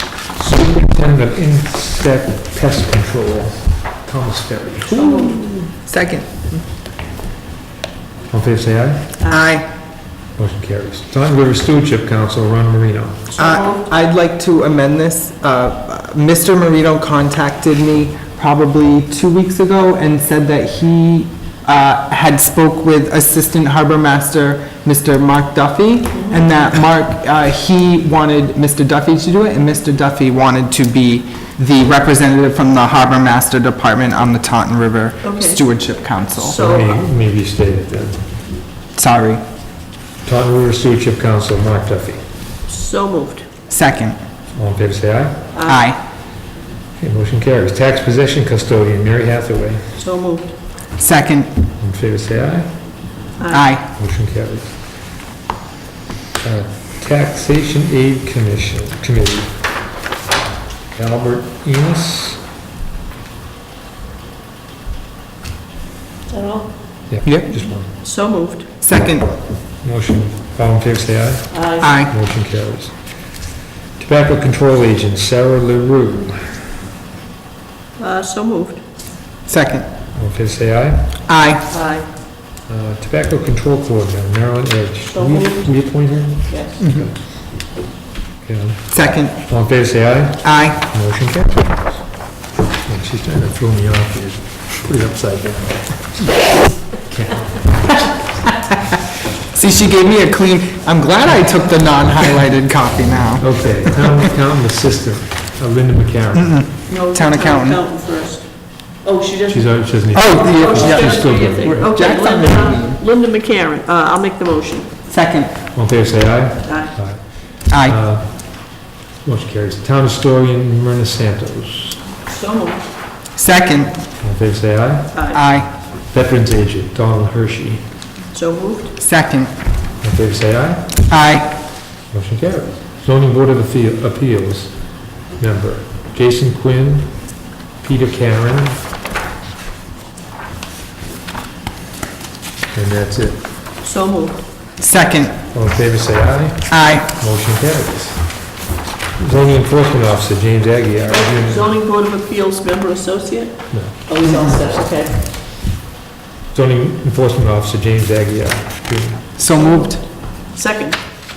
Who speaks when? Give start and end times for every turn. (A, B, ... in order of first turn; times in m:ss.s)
0:00.4-0:05.7 A
0:04.9-0:05.5 B
0:05.8-0:06.6 C
0:08.3-0:09.2 A
0:09.3-0:09.7 C
0:10.4-0:13.3 A
0:13.3-0:13.8 B
0:13.4-0:36.6 C
0:26.1-0:26.4 B
0:35.2-0:35.6 B
0:36.4-0:37.0 B
0:36.5-0:38.2 A
0:39.0-0:39.4 C
0:40.2-0:42.2 A
0:42.7-0:43.5 B
0:43.7-0:44.2 C
0:44.5-0:45.5 A
0:45.5-0:45.9 B
0:45.6-0:46.0 C
0:47.0-0:49.8 A
0:50.0-0:50.5 B
0:51.0-0:51.6 C
0:51.8-0:52.7 A
0:53.4-0:53.7 B
0:53.5-0:53.8 C
0:53.9-0:54.7 A
0:56.4-0:59.5 A
1:00.9-1:02.4 A
1:06.3-1:06.7 B
1:07.1-1:07.9 A
1:08.0-1:08.7 B
1:08.8-1:09.4 C
1:09.8-1:12.9 A
1:11.5-1:12.0 B
1:11.8-1:12.1 C
1:14.0-1:16.6 A
1:18.0-1:18.8 B
1:19.4-1:19.8 C
1:20.2-1:21.2 A
1:21.3-1:21.7 C
1:21.7-1:22.1 B
1:22.7-1:27.2 A
1:25.1-1:26.8 B
1:26.8-1:27.1 C
1:28.4-1:32.0 A
1:28.9-1:29.4 C
1:30.4-1:30.8 C
1:32.8-1:36.4 A
1:37.0-1:37.8 A
1:39.5-1:44.3 C
1:43.4-1:46.6 A
1:46.3-1:47.8 C
1:46.9-1:48.4 B
1:49.0-1:54.9 B
1:49.5-1:51.9 A
1:50.1-1:53.0 C
1:55.1-1:55.5 C
1:55.7-1:58.7 A
1:56.6-1:56.9 B
1:57.7-1:58.0 C
1:59.2-2:02.0 A
2:02.3-2:02.8 B
2:03.4-2:03.9 C
2:04.2-2:05.2 A
2:05.1-2:05.4 B
2:05.3-2:05.7 C
2:06.1-2:07.8 A
2:08.3-2:08.9 B
2:09.0-2:09.5 C
2:10.0-2:11.0 A
2:11.1-2:11.5 C
2:12.1-2:14.7 A
2:15.4-2:17.1 A
2:17.8-2:18.8 A
2:22.7-2:23.4 A
2:23.8-2:24.4 B
2:24.8-2:25.4 C
2:25.5-2:28.4 A
2:26.7-2:27.1 C
2:29.2-2:31.7 A
2:31.1-2:35.2 B
2:33.7-2:34.0 A
2:36.5-2:39.3 A
2:39.4-2:40.0 C
2:39.5-2:40.0 B
2:40.5-2:41.0 B